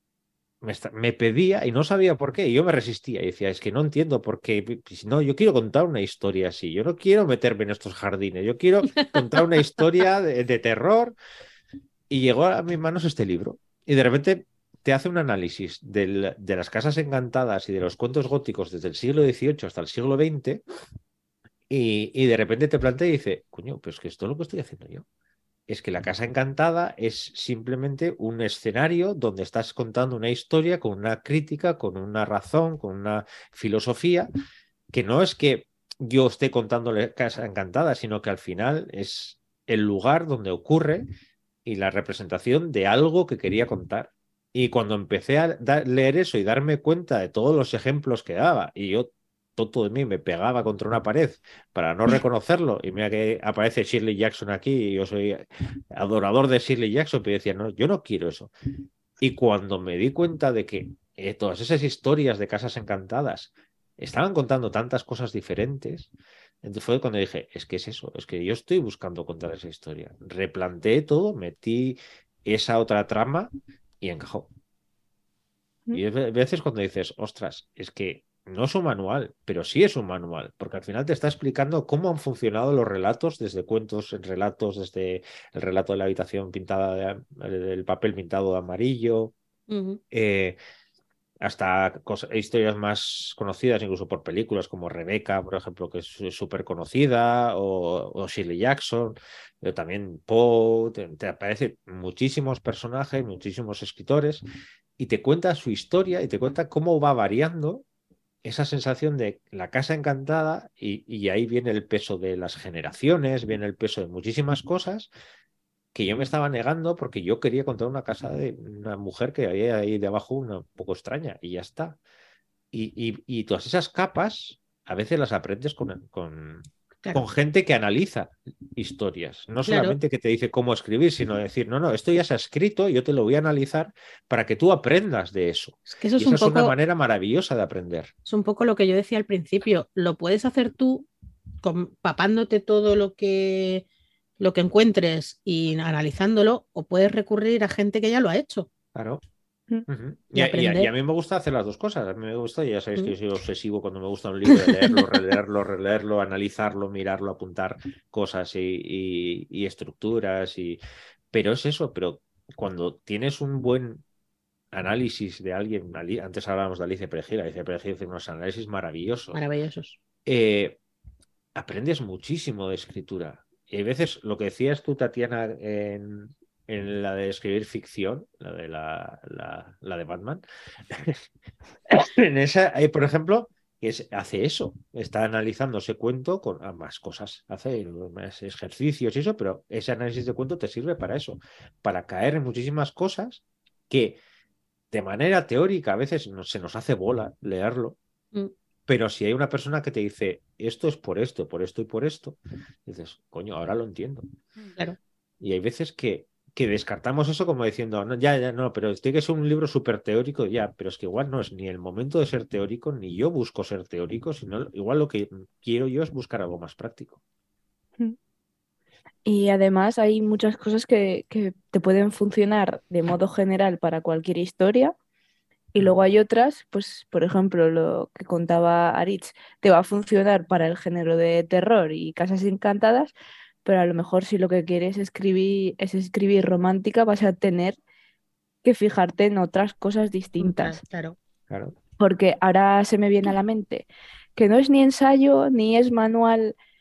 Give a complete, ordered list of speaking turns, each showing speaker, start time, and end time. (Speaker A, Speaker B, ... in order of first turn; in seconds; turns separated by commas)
Speaker A: 0.6-11.2, Speaker A: 12.1-20.6, Speaker A: 21.7-25.1, Speaker A: 25.7-34.3, Speaker A: 34.9-41.1, Speaker A: 41.7-58.5, Speaker A: 59.2-66.1, Speaker A: 66.6-73.5, Speaker A: 74.0-74.5, Speaker A: 75.9-89.3, Speaker B: 89.7-90.0, Speaker A: 90.1-90.6, Speaker A: 91.4-104.5, Speaker A: 105.0-107.8, Speaker A: 108.4-115.1, Speaker A: 115.9-122.0, Speaker A: 122.7-138.1, Speaker B: 129.7-130.0, Speaker B: 135.9-136.8, Speaker B: 138.3-141.1, Speaker B: 141.6-143.8, Speaker B: 144.4-148.7, Speaker A: 148.9-149.2, Speaker A: 149.9-160.8, Speaker B: 150.3-150.9, Speaker A: 161.3-164.0, Speaker A: 164.7-169.4, Speaker B: 169.3-170.0, Speaker A: 170.3-170.8, Speaker A: 171.6-181.2, Speaker A: 181.9-194.2, Speaker A: 194.9-198.0, Speaker A: 198.9-204.3, Speaker A: 205.4-217.2, Speaker C: 219.2-224.9, Speaker C: 225.7-233.1, Speaker C: 233.7-237.8, Speaker C: 238.6-240.8, Speaker B: 240.4-241.2, Speaker A: 241.5-241.8, Speaker C: 242.0-246.6